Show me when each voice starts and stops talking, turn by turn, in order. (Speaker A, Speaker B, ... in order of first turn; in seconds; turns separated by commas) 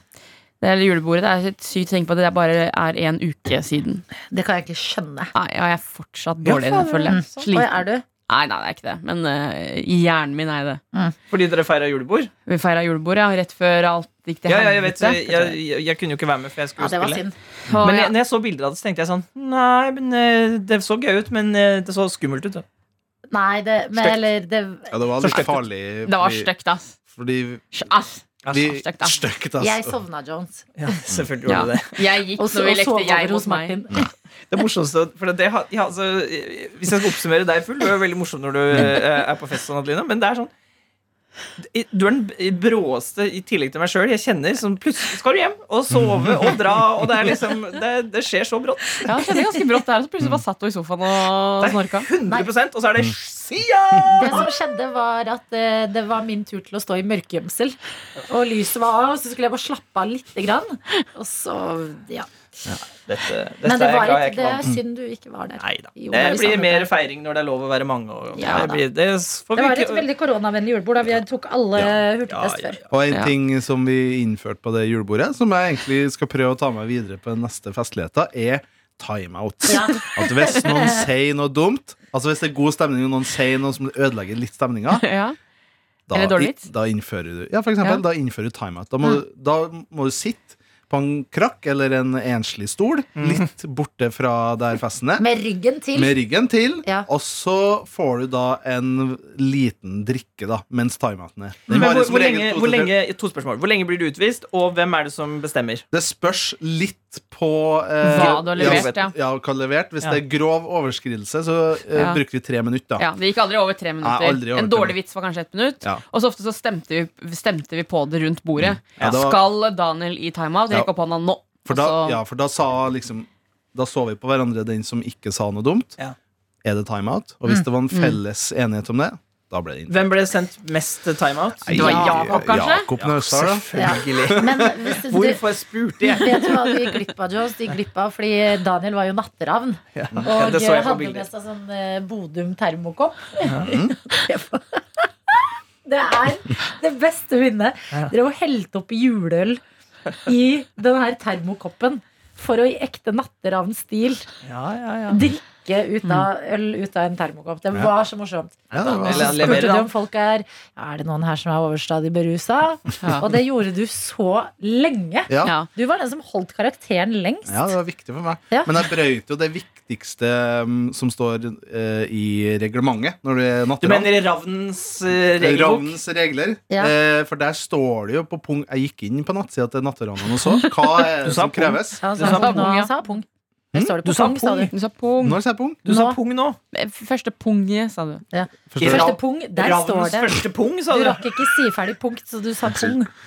Speaker A: 0.6-4.0, Speaker B: 4.3-5.3, Speaker A: 5.3-10.8, Speaker C: 6.4-7.5, Speaker B: 7.1-8.1, Speaker C: 11.3-12.3, Speaker A: 12.5-15.6, Speaker C: 14.5-17.2, Speaker B: 16.8-17.3, Speaker A: 17.7-18.1, Speaker C: 17.8-22.6, Speaker B: 23.3-24.9, Speaker C: 24.0-24.2, Speaker D: 24.9-26.5, Speaker C: 25.2-25.6, Speaker A: 26.1-26.9, Speaker D: 27.1-27.8, Speaker A: 27.7-29.2, Speaker D: 28.5-29.9, Speaker B: 29.6-31.0, Speaker C: 30.8-32.1, Speaker A: 31.5-33.8, Speaker B: 32.4-34.1, Speaker C: 34.5-40.5, Speaker C: 41.6-49.3, Speaker D: 45.9-46.6, Speaker A: 49.1-52.1, Speaker C: 51.6-54.5, Speaker B: 54.1-57.8, Speaker B: 58.3-62.3, Speaker C: 63.1-64.7, Speaker B: 63.6-66.9, Speaker C: 65.6-70.0, Speaker B: 68.4-68.8, Speaker B: 69.5-72.8, Speaker C: 72.3-72.8, Speaker D: 72.9-85.1, Speaker B: 79.7-81.0, Speaker A: 84.9-85.4, Speaker D: 86.1-95.2, Speaker A: 86.1-86.7, Speaker C: 93.2-93.5, Speaker B: 95.2-96.2, Speaker D: 96.0-102.9, Speaker C: 101.7-105.8, Speaker D: 105.9-113.1, Speaker A: 108.0-109.1, Speaker C: 108.1-109.0, Speaker A: 111.9-112.2, Speaker A: 113.0-122.2, Speaker D: 114.0-115.0, Speaker D: 118.6-119.5, Speaker D: 121.7-126.0, Speaker D: 126.6-130.0, Speaker A: 127.9-128.2, Speaker C: 129.9-136.5, Speaker D: 131.6-134.7, Speaker A: 131.7-132.9, Speaker B: 131.9-132.1, Speaker B: 133.8-135.4, Speaker B: 136.1-149.6, Speaker C: 139.9-141.2, Speaker C: 143.4-143.8, Speaker D: 143.6-144.0, Speaker B: 150.2-154.3, Speaker C: 154.4-155.2, Speaker B: 155.1-167.7, Speaker D: 158.7-159.7, Speaker C: 158.8-159.9, Speaker D: 165.3-165.6, Speaker D: 167.5-174.1, Speaker C: 173.8-176.0, Speaker D: 175.4-182.1, Speaker C: 181.2-182.7, Speaker B: 182.0-184.7, Speaker A: 182.2-182.9, Speaker C: 184.0-184.7, Speaker A: 184.7-185.4, Speaker D: 185.2-185.8, Speaker C: 185.8-186.6, Speaker B: 185.9-186.2, Speaker A: 186.7-188.2, Speaker B: 188.3-193.1, Speaker D: 188.7-189.1, Speaker C: 188.8-191.2, Speaker D: 192.7-192.9